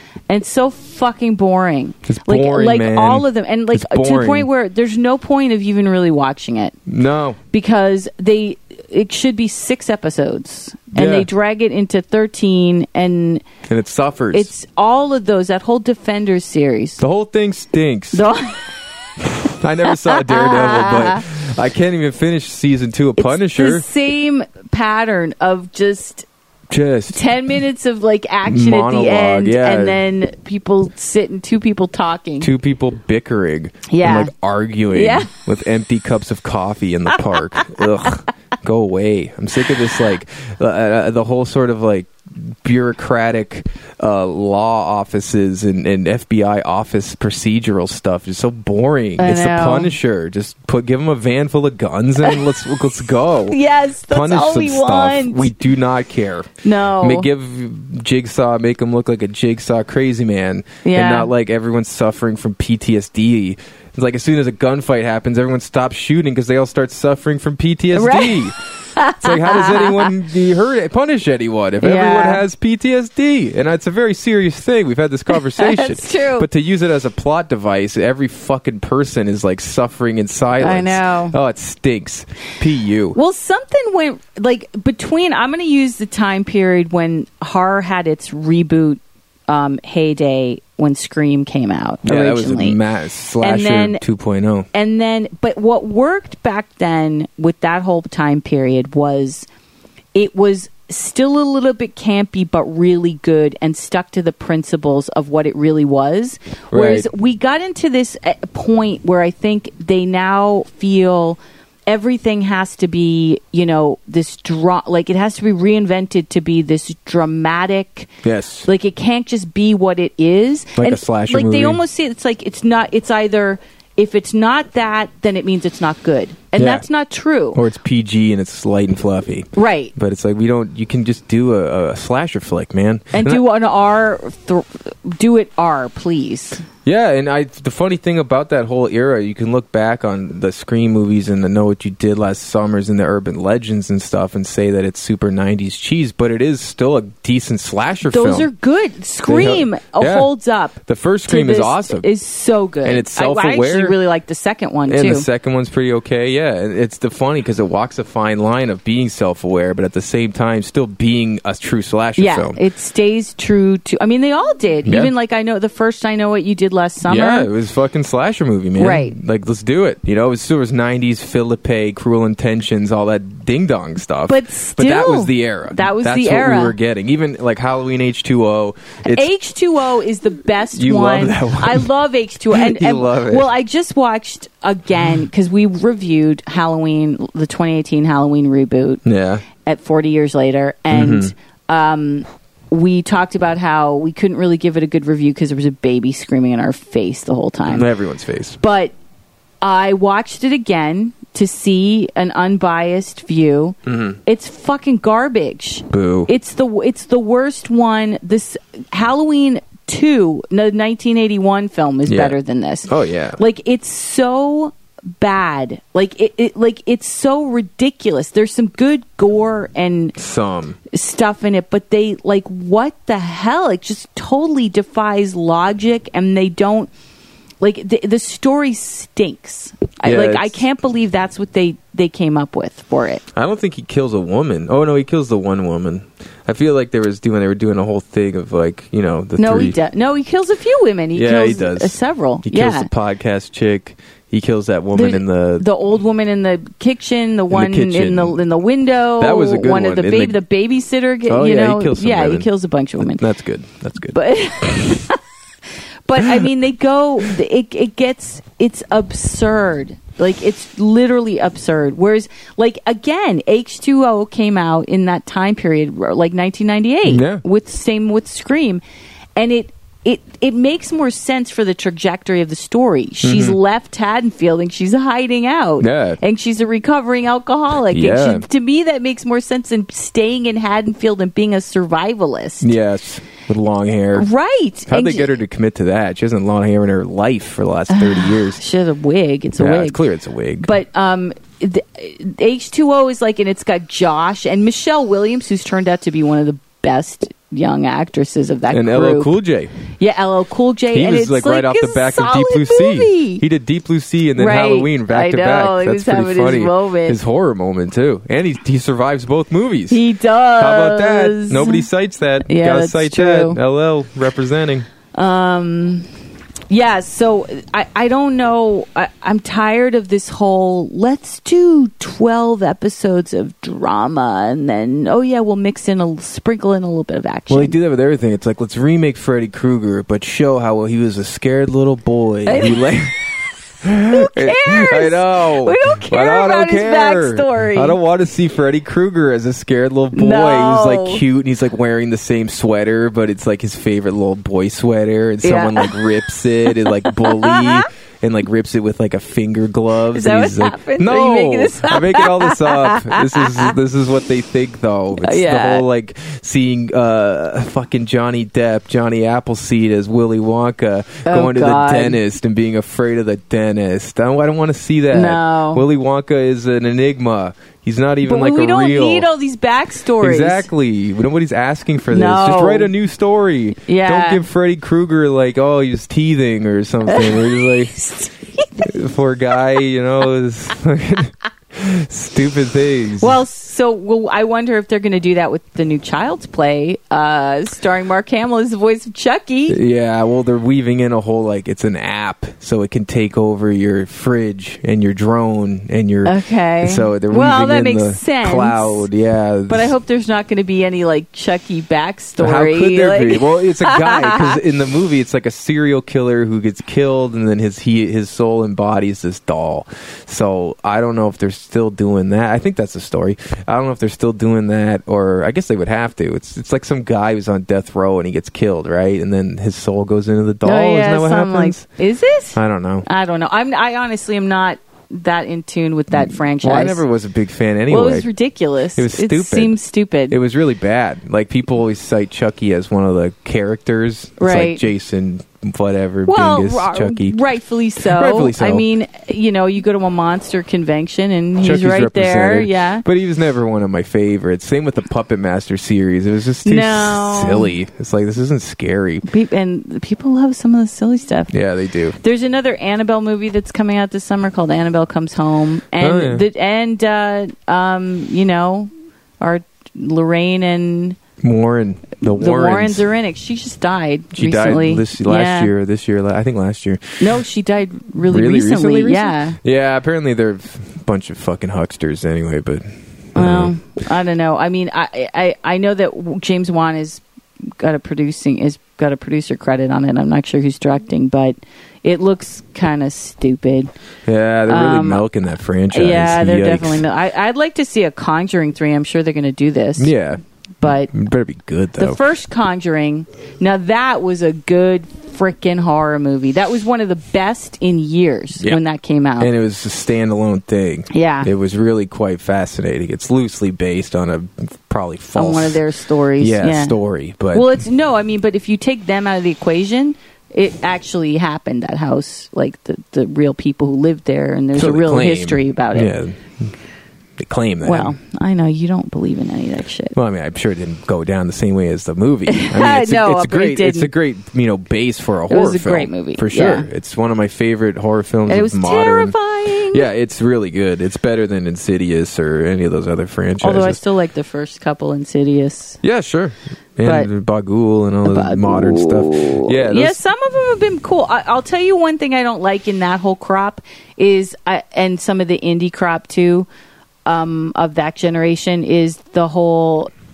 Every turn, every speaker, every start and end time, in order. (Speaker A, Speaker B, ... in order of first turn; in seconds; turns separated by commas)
Speaker A: 0.3-6.8, Speaker B: 2.1-4.5, Speaker B: 6.9-7.4, Speaker A: 7.5-13.4, Speaker B: 10.9-11.3, Speaker B: 13.7-14.5, Speaker A: 14.3-17.0, Speaker B: 17.0-18.3, Speaker A: 18.1-18.7, Speaker B: 19.4-23.9, Speaker A: 19.9-21.2, Speaker A: 23.2-26.3, Speaker B: 26.7-27.2, Speaker A: 27.1-32.5, Speaker B: 28.4-30.0, Speaker B: 32.4-53.6, Speaker A: 33.9-34.3, Speaker A: 34.9-35.3, Speaker A: 37.5-38.1, Speaker A: 49.2-49.9, Speaker A: 53.5-55.5, Speaker B: 54.1-68.6, Speaker A: 56.6-57.3, Speaker A: 60.8-61.3, Speaker A: 67.9-70.1, Speaker B: 69.2-83.2, Speaker A: 71.8-72.4, Speaker A: 75.3-76.5, Speaker A: 80.6-81.3, Speaker A: 83.1-92.8, Speaker B: 92.0-94.7, Speaker A: 93.4-94.0, Speaker A: 94.7-99.5, Speaker A: 100.2-118.1, Speaker B: 106.7-107.1, Speaker B: 118.2-118.7, Speaker A: 118.7-127.6, Speaker B: 120.8-121.8, Speaker B: 126.6-126.9, Speaker B: 127.5-133.4, Speaker A: 129.6-129.9, Speaker A: 133.1-136.7, Speaker B: 136.8-148.5, Speaker A: 148.1-150.8, Speaker B: 149.3-152.1, Speaker A: 151.3-155.3, Speaker B: 152.8-153.9, Speaker B: 154.9-162.6, Speaker A: 162.2-167.5, Speaker B: 164.8-165.1, Speaker B: 167.1-179.3, Speaker A: 168.8-169.2, Speaker A: 174.3-176.8, Speaker A: 179.1-189.0, Speaker B: 180.7-181.9, Speaker B: 182.5-183.5, Speaker B: 189.1-189.4, Speaker A: 189.6-197.9, Speaker B: 190.9-191.3, Speaker B: 197.7-198.6, Speaker A: 198.6-198.9, Speaker A: 199.6-220.2, Speaker B: 203.9-204.2, Speaker B: 205.9-206.3, Speaker B: 212.1-213.4, Speaker B: 220.2-220.8, Speaker A: 220.9-226.9, Speaker A: 227.6-233.2, Speaker B: 230.0-230.6, Speaker B: 233.3-239.8, Speaker A: 239.4-242.9, Speaker B: 241.2-245.7, Speaker A: 244.9-253.2, Speaker B: 247.5-248.4, Speaker B: 249.2-250.4, Speaker B: 251.3-255.0, Speaker A: 254.1-255.2, Speaker A: 256.1-268.8, Speaker B: 256.2-256.5, Speaker B: 267.1-267.4, Speaker A: 269.4-282.7, Speaker B: 273.2-273.6, Speaker B: 275.8-276.2, Speaker B: 277.9-278.4, Speaker B: 282.6-284.3, Speaker A: 284.1-285.3, Speaker B: 284.9-288.6, Speaker A: 287.9-290.0, Speaker B: 289.6-290.7, Speaker A: 290.6-299.3, Speaker B: 298.7-299.7, Speaker A: 300.0-303.4, Speaker B: 300.9-310.0, Speaker A: 304.4-307.2, Speaker A: 309.9-311.9, Speaker B: 310.6-314.9, Speaker A: 312.5-313.6, Speaker A: 315.1-316.1, Speaker A: 316.7-327.8, Speaker B: 327.5-333.1, Speaker A: 332.5-333.1, Speaker B: 333.8-369.3, Speaker A: 334.1-338.0, Speaker A: 340.1-341.2, Speaker A: 345.4-347.9, Speaker A: 350.1-353.8, Speaker A: 355.2-355.9, Speaker A: 361.2-362.2, Speaker A: 365.1-365.8, Speaker A: 368.2-370.7, Speaker B: 370.2-377.9, Speaker A: 372.1-372.9, Speaker A: 373.9-374.4, Speaker A: 377.1-378.9, Speaker B: 378.8-383.4, Speaker A: 383.2-389.8, Speaker B: 389.7-399.9, Speaker A: 396.2-399.1, Speaker A: 399.7-404.6, Speaker B: 402.4-421.9, Speaker A: 420.6-427.0, Speaker B: 422.6-423.1, Speaker B: 426.1-428.3, Speaker A: 427.9-430.4, Speaker B: 429.0-429.8, Speaker B: 430.3-437.4, Speaker A: 434.4-434.8, Speaker A: 436.3-443.1, Speaker B: 438.0-438.9, Speaker B: 441.6-449.3, Speaker A: 446.6-447.7, Speaker A: 449.2-451.5, Speaker B: 451.5-452.2, Speaker A: 452.2-461.2, Speaker B: 456.0-456.4, Speaker B: 461.4-463.1, Speaker A: 462.2-465.7, Speaker B: 464.3-467.3, Speaker A: 467.2-469.6, Speaker B: 468.3-473.8, Speaker A: 473.4-477.2, Speaker A: 477.8-483.9, Speaker B: 484.3-487.0, Speaker A: 484.7-485.2, Speaker A: 485.9-490.1, Speaker B: 490.0-492.2, Speaker A: 490.8-491.1, Speaker A: 492.0-499.5, Speaker B: 499.4-505.8, Speaker A: 501.1-501.5, Speaker A: 505.4-507.0, Speaker B: 506.4-507.7, Speaker A: 507.5-516.1, Speaker B: 514.7-516.7, Speaker B: 517.4-518.1, Speaker A: 517.8-520.2, Speaker B: 520.1-534.0, Speaker A: 522.5-524.1, Speaker A: 525.5-526.9, Speaker A: 528.5-530.1, Speaker A: 533.6-536.0, Speaker B: 536.0-540.2, Speaker A: 537.0-537.3, Speaker A: 538.3-546.7, Speaker A: 547.3-550.1